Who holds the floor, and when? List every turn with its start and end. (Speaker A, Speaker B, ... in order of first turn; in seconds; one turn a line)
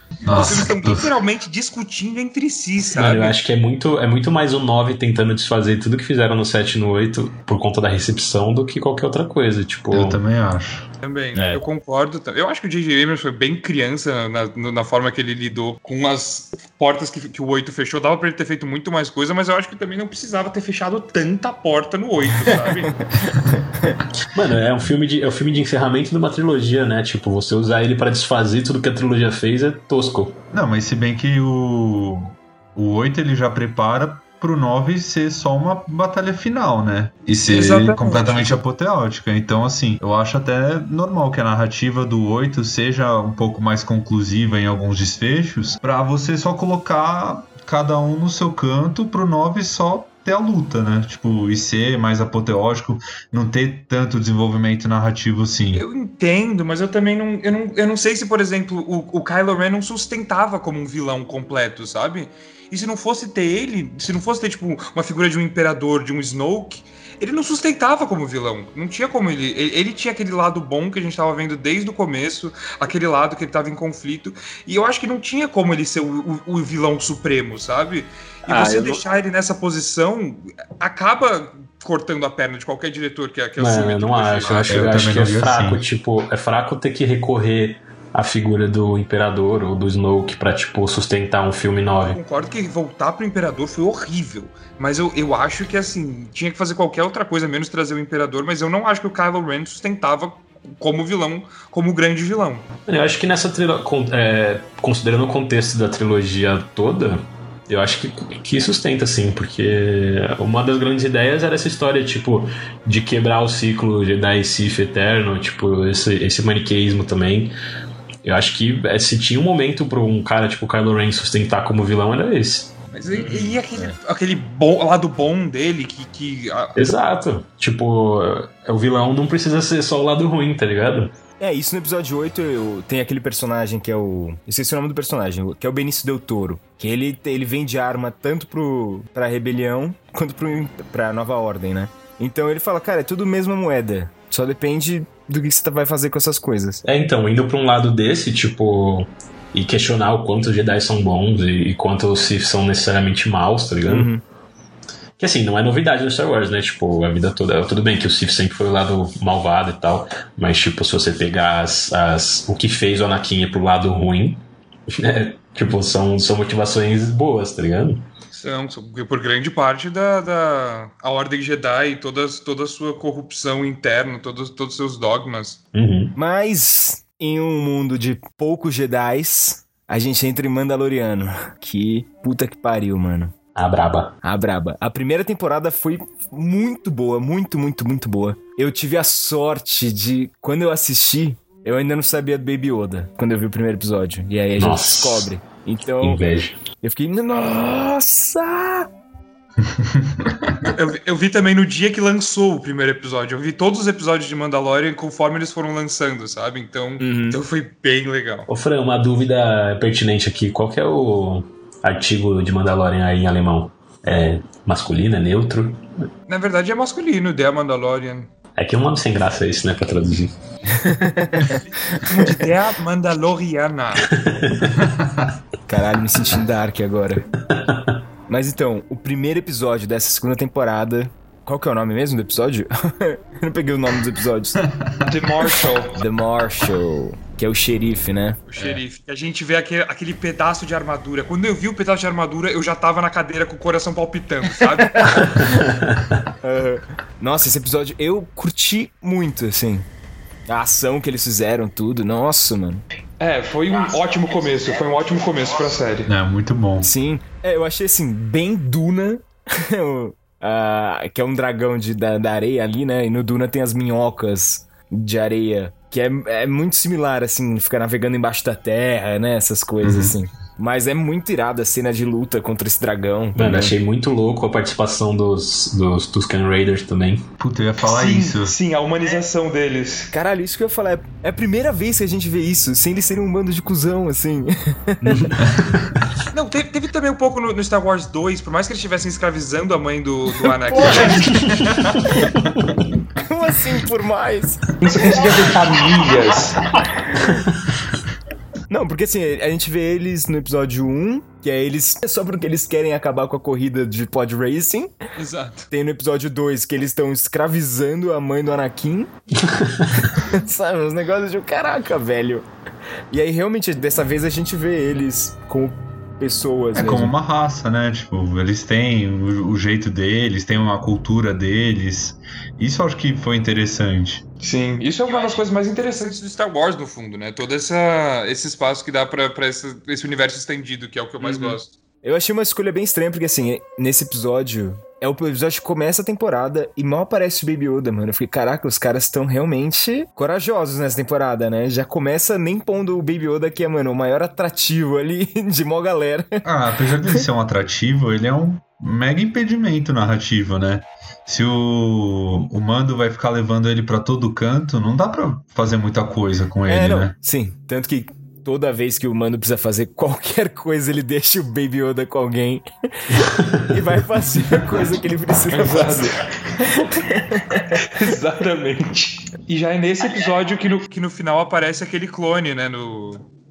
Speaker A: 0.2-1.2
Speaker B: 0.3-3.4
Speaker C: 2.9-10.2
Speaker A: 9.9-10.9
Speaker B: 11.0-23.0
Speaker C: 11.3-11.6
Speaker D: 23.1-24.0
Speaker C: 24.2-30.4
Speaker A: 30.5-55.9
Speaker B: 37.5-38.6
Speaker B: 55.7-85.0
Speaker D: 78.5-79.0
Speaker C: 83.6-92.2
Speaker A: 84.7-85.8
Speaker B: 92.1-102.7
Speaker C: 102.9-117.5
Speaker C: 118.2-122.7
Speaker B: 122.9-126.9
Speaker C: 126.8-131.1
Speaker D: 131.4-146.8
Speaker C: 146.8-154.1
Speaker D: 153.9-154.2
Speaker C: 155.2-168.1
Speaker B: 168.3-175.6
Speaker C: 175.7-176.2
Speaker D: 176.2-183.3
Speaker C: 183.6-184.2
Speaker D: 184.2-196.2
Speaker C: 194.6-195.3
Speaker C: 196.0-196.6
Speaker D: 196.8-198.9
Speaker A: 199.6-200.7
Speaker B: 200.7-208.5
Speaker D: 207.0-207.4
Speaker C: 208.5-215.8
Speaker B: 216.3-218.3
Speaker C: 218.6-220.3
Speaker D: 220.8-222.2
Speaker B: 221.4-224.1
Speaker C: 224.1-224.9
Speaker A: 224.8-225.3
Speaker D: 225.7-227.3
Speaker C: 227.6-228.0
Speaker D: 228.3-234.6
Speaker A: 234.7-235.1
Speaker B: 235.1-235.9
Speaker D: 235.9-238.4
Speaker B: 238.5-245.4
Speaker D: 245.0-245.4
Speaker C: 245.4-246.2
Speaker D: 246.4-249.9
Speaker D: 250.5-252.8
Speaker B: 253.2-256.1
Speaker A: 256.1-256.9
Speaker D: 256.8-273.8
Speaker A: 269.8-270.2
Speaker C: 273.4-277.3
Speaker A: 277.4-278.6
Speaker B: 277.8-280.1
Speaker D: 280.1-285.2
Speaker C: 285.0-285.9
Speaker B: 286.3-291.3
Speaker D: 290.7-291.3
Speaker C: 290.8-292.8
Speaker A: 291.3-292.1
Speaker D: 293.2-295.5
Speaker B: 294.8-296.7
Speaker D: 298.7-304.9
Speaker B: 305.2-305.7
Speaker D: 305.7-309.1
Speaker C: 309.4-309.9
Speaker D: 310.0-312.5
Speaker D: 313.1-317.1
Speaker A: 316.7-324.2
Speaker B: 324.4-331.7
Speaker D: 331.2-346.4
Speaker A: 346.4-357.1
Speaker D: 356.7-367.9
Speaker B: 365.5-366.7
Speaker B: 367.7-373.2